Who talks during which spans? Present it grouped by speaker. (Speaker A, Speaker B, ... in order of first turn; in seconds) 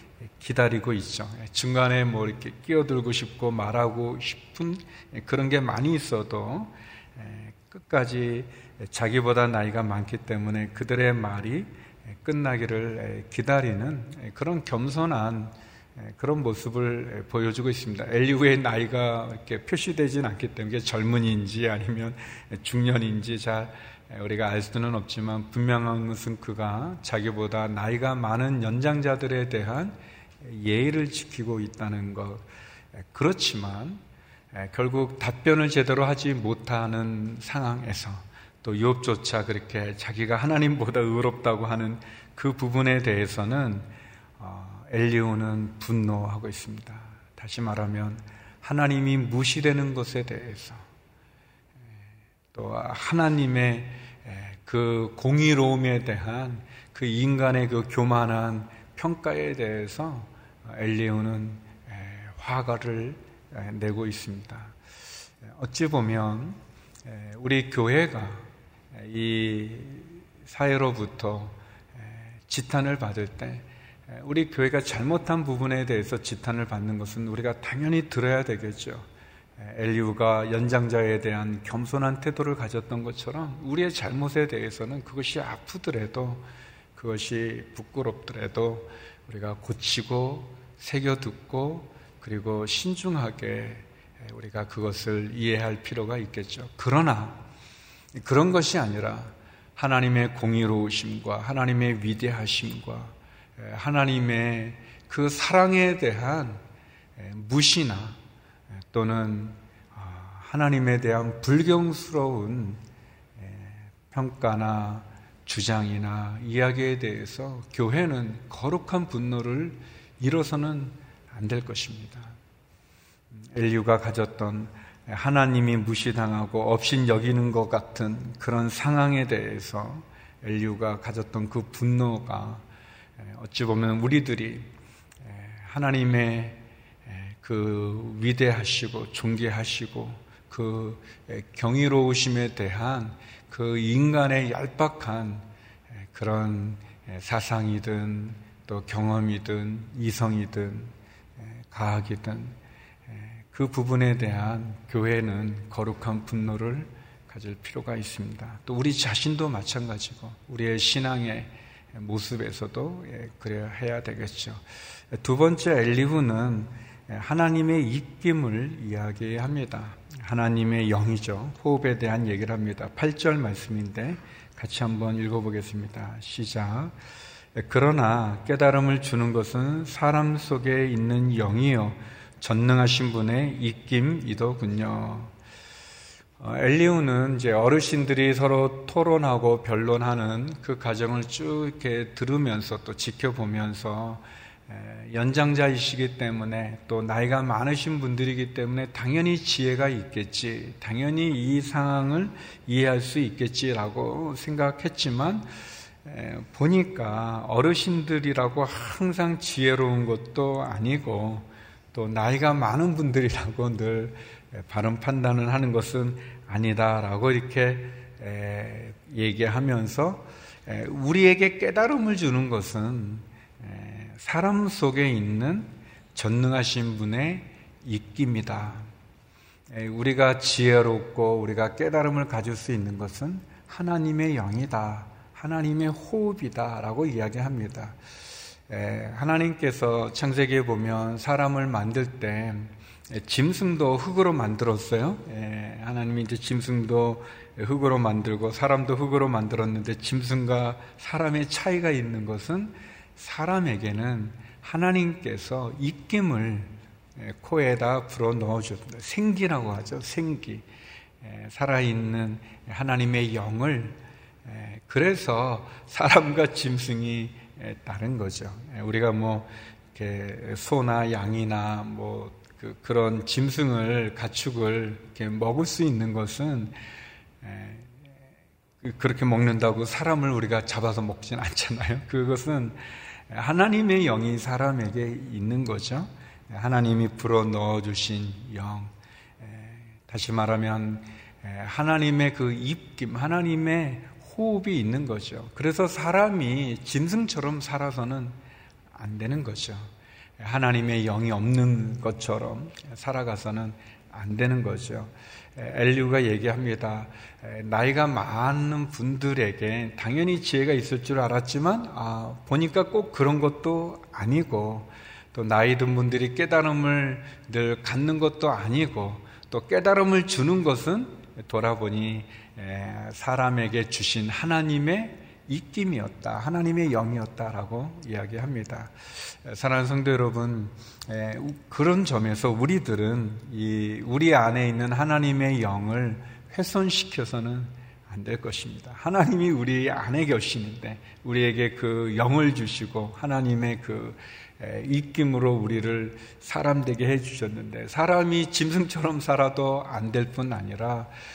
Speaker A: 0.4-32.5, 33.1-34.0, 34.5-50.8, 52.5-64.8, 65.5-79.1, 79.6-97.4, 98.1-106.6, 107.2-108.2, 108.9-112.8, 113.4-122.4, 123.5-132.6, 133.2-134.7, 135.2-145.5, 146.1-152.6, 153.1-164.6, 165.1-176.9, 177.6-185.3, 186.4-205.5, 206.1-228.9, 229.7-238.0, 238.7-260.6, 261.2-276.8, 277.4-277.9, 278.8-298.4, 298.9-351.1